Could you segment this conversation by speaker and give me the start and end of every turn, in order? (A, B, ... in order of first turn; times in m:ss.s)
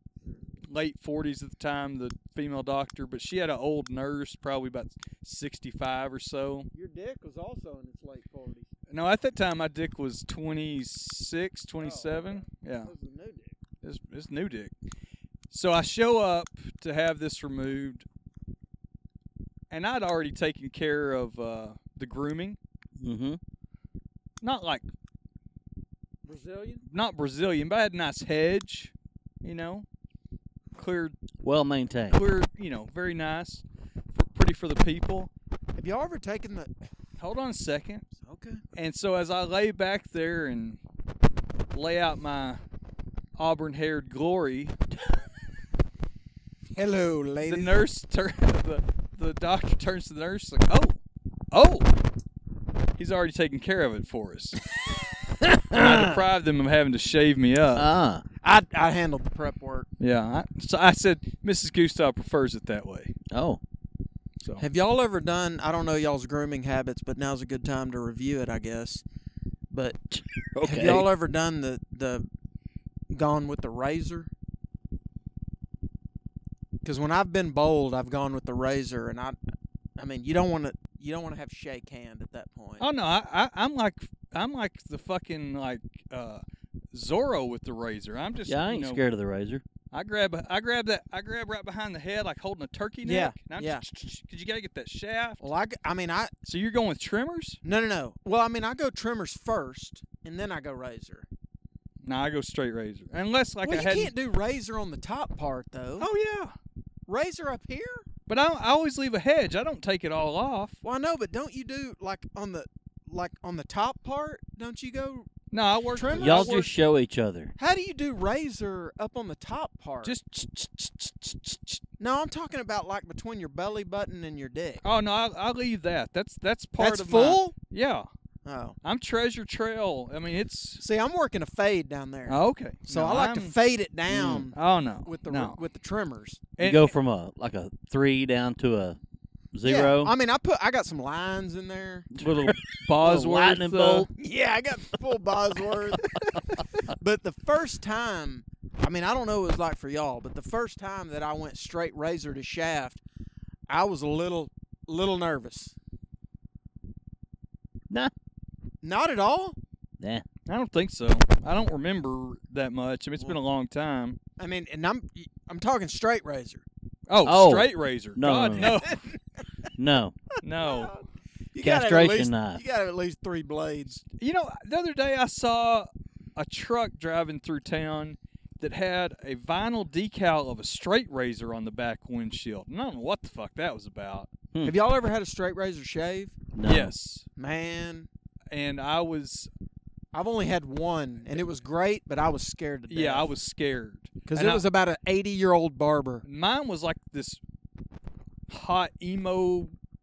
0:00.7-0:06.7 A
0:06.7-0:08.6 B
0:08.9-0:12.9 A
0:11.8-0:13.5 B
0:13.8-0:14.7 A
0:15.5-0:18.0 A
0:19.7-0:22.6 A
0:23.0-0:23.4 C
0:24.4-0:24.8 A
0:26.2-0:26.8 B
0:26.8-0:28.9 A
0:29.4-0:29.8 A
0:30.7-0:31.2 A
0:31.4-0:32.2 C
0:32.1-0:35.3 A
0:35.8-0:36.7 B
0:37.2-0:38.0 A
0:38.2-0:38.6 B
0:38.8-0:40.8 A
0:41.7-0:42.6 A
0:43.4-0:44.8 A
0:46.7-0:47.7 B
0:47.4-0:51.0 A
0:51.5-0:51.9 A
0:53.0-0:54.6 A
0:55.5-0:56.1 B
0:55.7-0:57.9 A
0:57.7-0:58.2 C
0:58.4-0:59.9 B
1:00.0-1:03.2 A
1:03.3-1:03.6 C
1:04.6-1:09.0 B
1:09.7-1:10.0 B
1:10.1-1:11.1 C
1:10.6-1:12.3 B
1:13.1-1:14.3 B
1:16.8-1:19.4 B
1:20.0-1:22.8 B
1:22.8-1:29.0 A
1:28.5-1:29.6 C
1:29.9-1:35.4 A
1:33.0-1:33.8 B
1:35.4-1:36.3 B
1:36.4-1:37.6 A
1:37.6-1:41.3 B
1:42.0-1:44.1 A
1:43.6-1:46.1 B
1:46.0-1:46.5 A
1:47.1-1:48.0 B
1:48.3-1:50.8 A
1:50.8-1:55.3 B
1:55.5-1:56.7 A
1:55.9-1:56.5 B
1:56.1-1:57.5 C
1:57.6-2:00.1 B
2:00.0-2:01.8 A
2:02.0-2:04.8 B
2:04.8-2:08.1 A
2:06.8-2:07.5 B
2:08.4-2:08.8 B
2:08.8-2:10.8 A
2:10.8-2:12.4 B
2:12.3-2:13.5 A
2:12.9-2:16.4 B
2:14.1-2:14.4 C
2:14.5-2:15.6 A
2:16.6-2:16.9 A
2:16.6-2:19.0 C
2:19.5-2:20.1 C
2:19.6-2:22.1 B
2:22.1-2:24.1 C
2:22.2-2:24.1 A
2:24.2-2:26.2 B
2:26.9-2:33.0 B
2:33.7-2:35.8 B
2:38.8-2:39.6 B
2:40.0-2:40.2 C
2:40.5-2:44.2 A
2:44.4-2:46.6 B
2:47.1-2:49.0 A
2:47.2-2:48.8 C
2:49.8-2:50.2 C
2:50.4-2:51.0 A
2:50.6-2:51.0 B
2:51.5-2:54.0 B
2:51.6-2:52.6 C
2:54.2-3:04.3 A
3:04.6-3:06.3 B
3:06.5-3:06.9 C
3:06.6-3:07.2 A
3:07.4-3:08.1 B
3:08.5-3:09.5 A
3:10.1-3:13.3 B
3:12.9-3:14.6 A
3:14.3-3:16.2 B
3:16.2-3:17.4 A
3:18.5-3:19.7 A